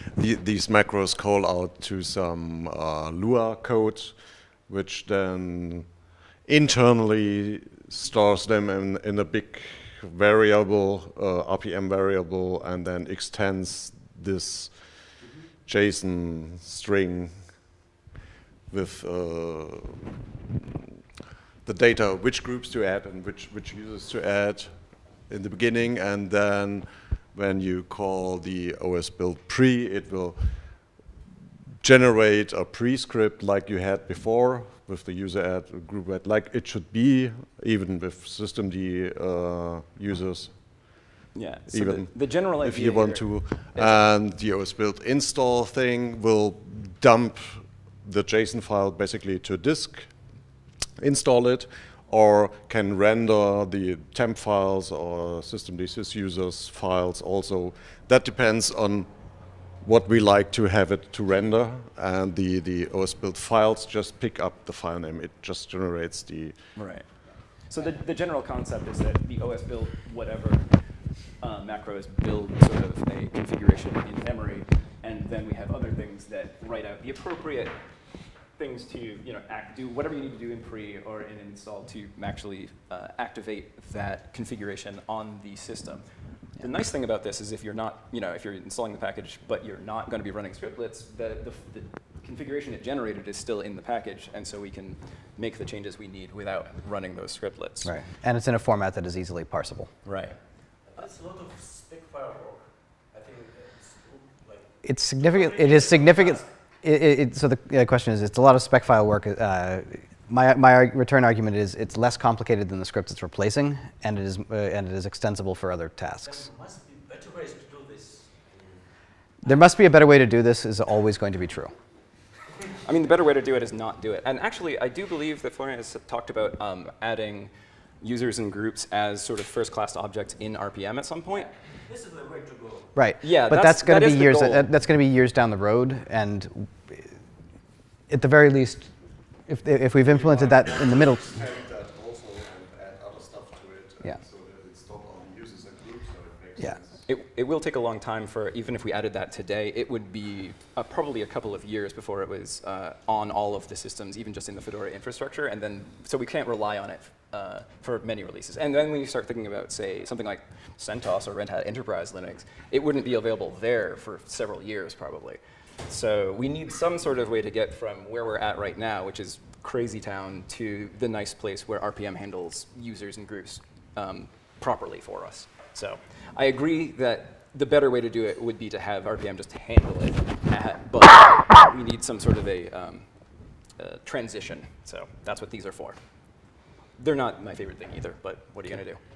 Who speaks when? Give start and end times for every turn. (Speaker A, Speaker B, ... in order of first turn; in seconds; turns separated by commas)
Speaker A: 0.1-17.9, Speaker B: 15.2-15.5, Speaker A: 18.7-20.2, Speaker A: 21.6-31.1, Speaker A: 31.8-67.2, Speaker C: 41.3-44.0, Speaker C: 66.7-77.8, Speaker C: 78.5-86.0, Speaker C: 86.6-97.9, Speaker D: 97.8-99.9, Speaker C: 100.0-101.0, Speaker B: 100.8-106.5, Speaker D: 104.8-116.5, Speaker B: 116.2-118.9, Speaker D: 119.4-121.7, Speaker C: 122.8-131.5, Speaker B: 131.3-132.9, Speaker D: 132.9-137.1, Speaker C: 133.2-134.7, Speaker D: 138.1-138.9, Speaker D: 139.5-141.2, Speaker A: 140.0-147.1, Speaker C: 147.1-183.1, Speaker C: 183.8-186.0, Speaker C: 187.0-189.0